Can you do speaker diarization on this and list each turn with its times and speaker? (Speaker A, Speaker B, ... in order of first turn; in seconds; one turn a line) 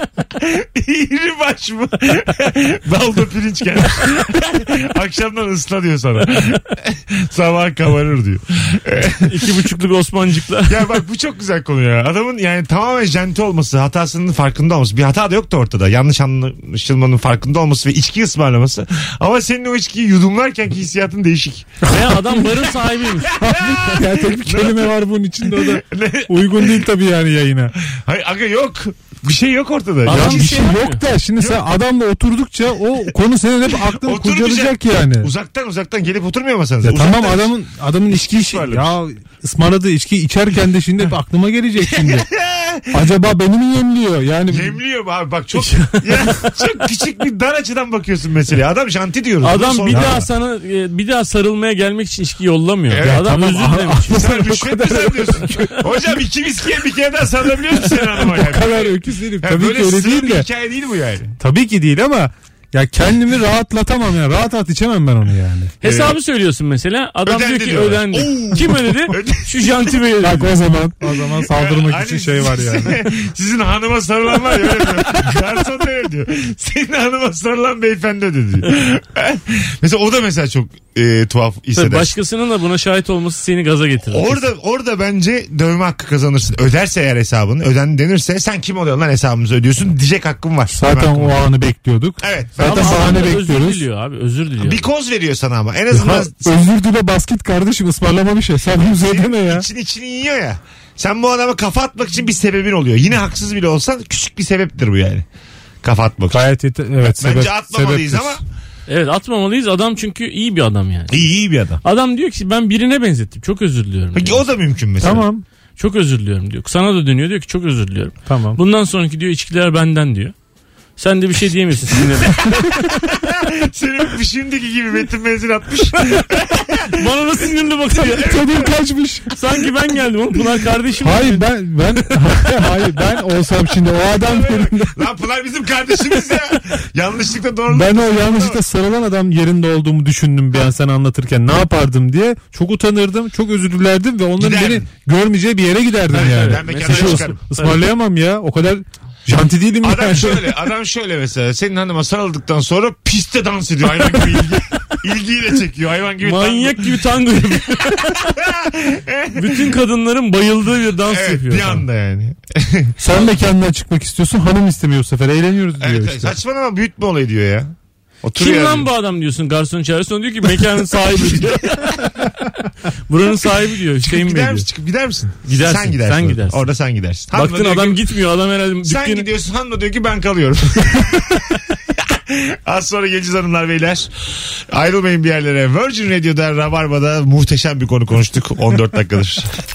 Speaker A: 0.3-9.5
Speaker B: 9.2-11.0
Speaker A: 10.7-21.7
Speaker C: 21.8-22.5
Speaker B: 21.9-23.3
Speaker A: 23.1-24.9
Speaker C: 23.3-27.7
Speaker A: 25.4-26.9
Speaker A: 27.9-30.5
Speaker B: 30.0-31.0
Speaker C: 30.1-35.3
Speaker A: 33.8-37.5
Speaker C: 36.8-42.3
Speaker A: 38.1-38.9
Speaker A: 41.8-43.0
Speaker C: 42.9-44.8
Speaker A: 44.5-50.2
Speaker B: 45.5-46.4
Speaker B: 49.4-54.2
Speaker C: 49.9-50.2
Speaker A: 52.9-53.5
Speaker C: 53.0-56.0
Speaker A: 54.0-61.3
Speaker C: 57.9-60.5
Speaker C: 61.4-65.7
Speaker B: 65.8-70.5
Speaker A: 65.8-66.2
Speaker A: 67.2-70.0
Speaker C: 70.2-73.0
Speaker A: 71.4-82.1
Speaker B: 81.7-84.4
Speaker A: 84.1-91.4
Speaker C: 90.7-93.8
Speaker A: 92.2-93.3
Speaker B: 92.6-94.9
Speaker A: 94.6-96.6
Speaker C: 95.9-99.7
Speaker A: 98.8-105.2
Speaker A: 105.8-106.4
Speaker C: 106.3-108.4
Speaker A: 107.0-108.4
Speaker B: 108.9-111.3
Speaker A: 111.1-111.8
Speaker B: 111.8-114.5
Speaker A: 114.1-115.2
Speaker C: 115.0-115.4
Speaker B: 115.8-120.3
Speaker C: 118.3-118.6
Speaker B: 121.0-122.7
Speaker A: 122.7-127.3
Speaker B: 126.9-128.3
Speaker A: 127.9-128.7
Speaker C: 128.2-129.4
Speaker B: 129.3-132.3
Speaker C: 131.0-135.0
Speaker A: 134.1-138.6
Speaker C: 137.7-150.6
Speaker A: 144.4-144.8
Speaker A: 146.1-147.4
Speaker B: 146.1-147.8
Speaker A: 149.8-156.9
Speaker B: 154.1-154.6
Speaker B: 156.2-158.3
Speaker A: 157.8-159.8
Speaker B: 159.3-161.8
Speaker A: 161.1-162.9
Speaker C: 163.0-166.3
Speaker A: 165.8-168.9
Speaker B: 168.4-172.2
Speaker B: 173.1-174.7
Speaker A: 174.0-178.0
Speaker B: 175.4-176.7
Speaker B: 177.3-179.3
Speaker A: 178.8-184.1
Speaker A: 184.7-189.5